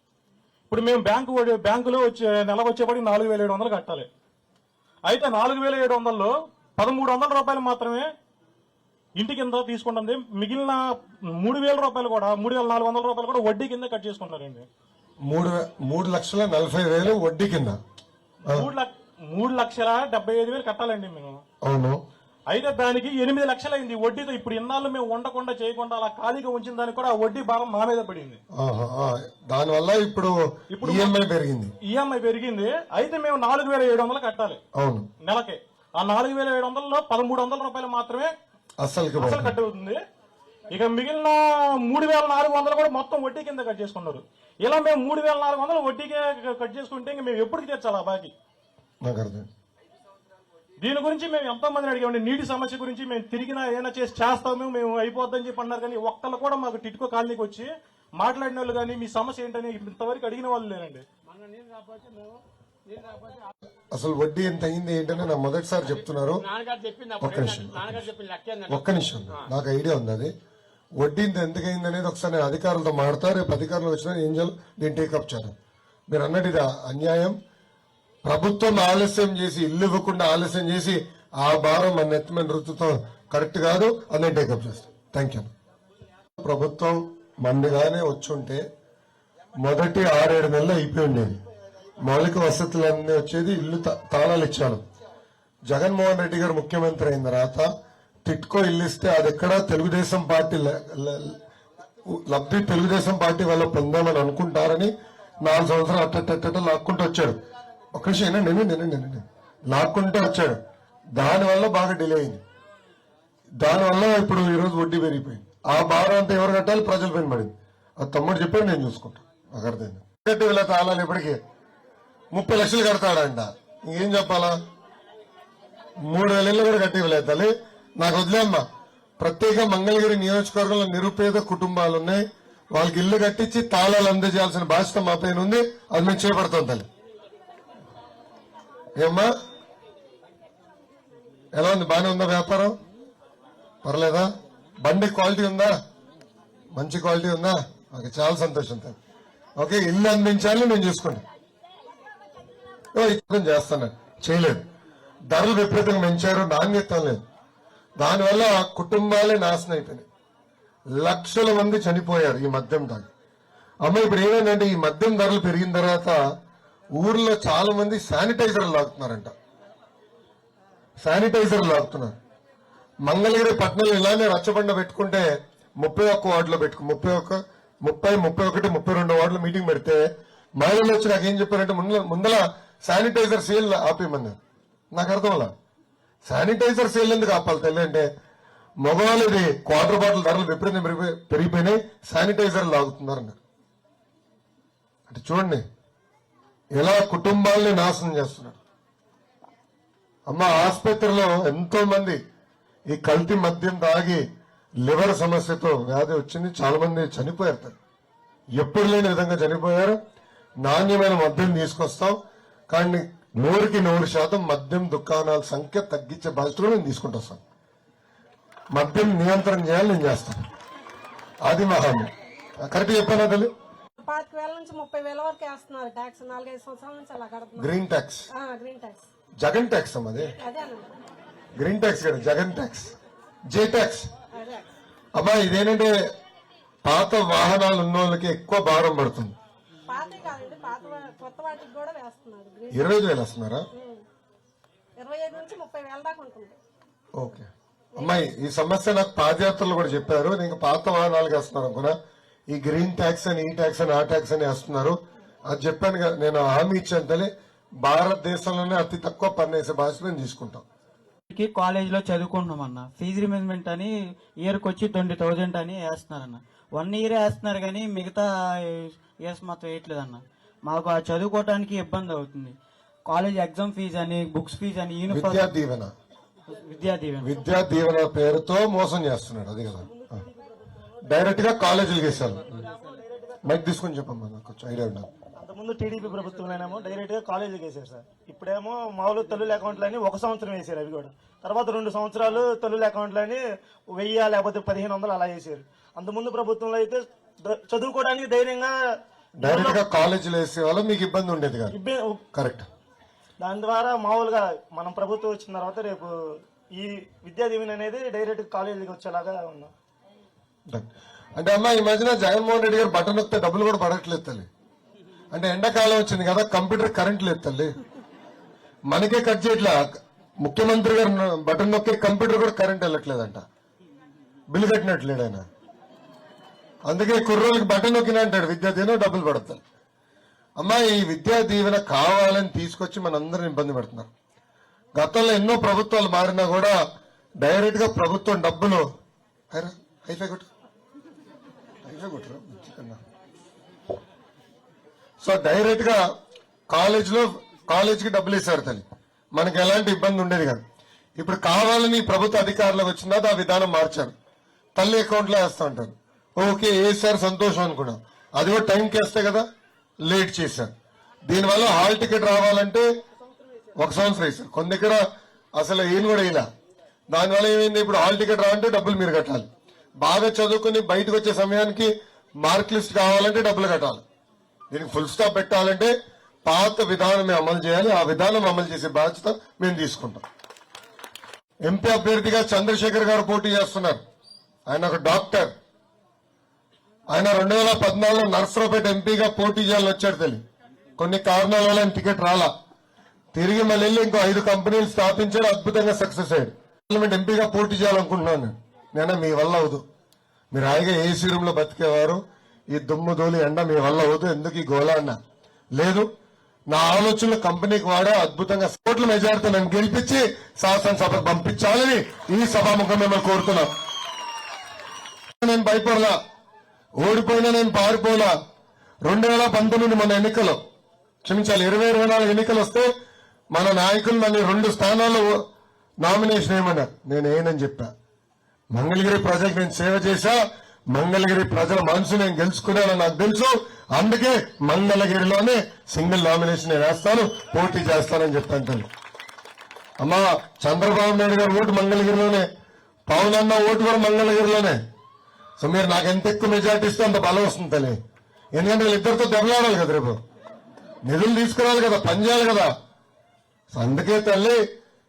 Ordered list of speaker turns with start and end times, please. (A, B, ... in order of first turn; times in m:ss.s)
0:00.7-0:04.1 A
0:05.1-0:08.1 A
0:09.2-0:10.8 A
0:11.3-0:14.7 A
0:15.3-0:17.8 B
0:18.5-0:21.4 A
0:21.6-0:22.0 B
0:22.5-0:28.4 A
0:28.6-0:31.7 B
0:30.7-0:31.2 A
0:31.8-0:34.6 A
0:34.8-0:35.1 B
0:35.2-0:38.3 A
0:38.8-0:39.6 B
0:39.2-0:40.0 A
0:40.7-0:48.3 A
0:49.0-0:49.5 B
0:50.8-1:01.1 A
1:03.9-1:06.5 B
1:07.2-1:10.3 B
1:11.0-1:15.6 B
1:16.1-1:17.4 B
1:18.2-1:25.5 B
1:26.4-1:28.6 B
1:29.6-1:31.4 B
1:32.0-1:34.8 B
1:35.7-1:37.7 B
1:38.2-1:41.4 B
1:42.1-1:44.9 B
1:45.4-1:47.4 B
1:47.9-1:50.6 B
1:51.2-1:52.4 B
1:53.6-2:01.4 B
2:02.3-2:04.6 B
2:06.1-2:08.7 B
2:09.2-2:16.9 B
2:19.0-2:19.3 B
2:21.6-2:22.8 B
2:23.8-2:24.3 B
2:24.8-2:25.8 B
2:26.7-2:29.0 B
2:29.6-2:31.2 B
2:33.0-2:34.7 B
2:35.3-2:37.2 B
2:38.0-2:40.1 B
2:41.0-2:43.1 B
2:43.8-2:46.2 B
2:47.0-2:49.3 B
2:51.0-2:52.2 B
2:53.1-2:55.3 B
2:55.8-3:00.0 B
3:00.6-3:04.4 B
3:04.9-3:05.5 B
3:06.3-3:08.1 B
3:08.8-3:13.4 B
3:15.1-3:15.6 B
3:16.8-3:18.6 B
3:20.3-3:22.2 B
3:22.9-3:24.2 B
3:24.8-3:27.8 B
3:28.6-3:30.0 B
3:30.6-3:32.2 B
3:32.7-3:37.4 B
3:38.7-3:40.4 B
3:41.5-3:42.1 B
3:42.6-3:43.5 B
3:44.0-3:47.7 C
3:47.6-3:48.3 B
3:48.4-3:49.0 C
3:49.4-3:50.4 B
3:50.4-3:50.9 C
3:51.6-3:52.9 B
3:53.5-3:54.1 B
3:54.4-3:54.7 C
3:55.2-3:55.9 B
3:56.8-3:59.4 B
3:59.9-4:02.8 C
4:02.7-4:03.6 B
4:05.0-4:06.6 C
4:07.2-4:12.0 B
4:12.5-4:15.0 B
4:15.5-4:17.3 B
4:17.8-4:20.6 B
4:21.3-4:35.4 D
4:35.1-4:35.9 B
4:36.5-4:37.3 D
4:37.2-4:39.9 B
4:41.1-4:42.6 B
4:42.8-4:43.4 E
4:43.4-4:45.1 B
4:45.4-4:53.4 E
4:53.9-4:58.7 E
4:59.4-5:01.7 B
4:59.4-4:59.8 E
5:01.7-5:02.2 E
5:02.3-5:02.7 B
5:03.4-5:06.1 E
5:06.7-5:09.7 E
5:10.7-5:14.5 B
5:15.3-5:17.7 B
5:18.9-5:19.8 B
5:20.4-5:23.4 B
5:24.5-5:25.5 B
5:26.9-5:29.6 B
5:30.6-5:34.1 B
5:35.0-5:36.8 B
5:37.4-5:38.9 B
5:39.5-5:40.5 B
5:41.8-5:43.0 B
5:45.2-5:46.0 B
5:46.7-5:50.6 B
5:51.2-5:54.2 B
5:54.8-5:59.5 B
6:00.1-6:00.7 B
6:01.3-6:02.9 B
6:03.8-6:05.0 B
6:05.6-6:06.5 B
6:07.1-6:09.5 B
6:10.0-6:14.0 B
6:14.7-6:15.9 B
6:16.5-6:20.2 B
6:21.7-6:24.0 B
6:24.7-6:25.5 B
6:27.1-6:30.4 B
6:31.0-6:32.5 B
6:33.3-6:39.8 B
6:40.5-6:45.2 B
6:45.8-6:46.1 B
6:46.7-6:53.7 B
6:55.4-6:56.2 B
6:57.0-6:58.3 B
6:59.1-7:00.6 B
7:01.2-7:02.9 B
7:03.5-7:05.4 B
7:06.0-7:07.9 B
7:08.7-7:10.4 B
7:10.9-7:18.9 B
7:20.0-7:22.5 B
7:23.1-7:24.8 B
7:25.6-7:28.0 B
7:28.6-7:30.2 B
7:31.0-7:32.7 B
7:33.7-7:34.6 B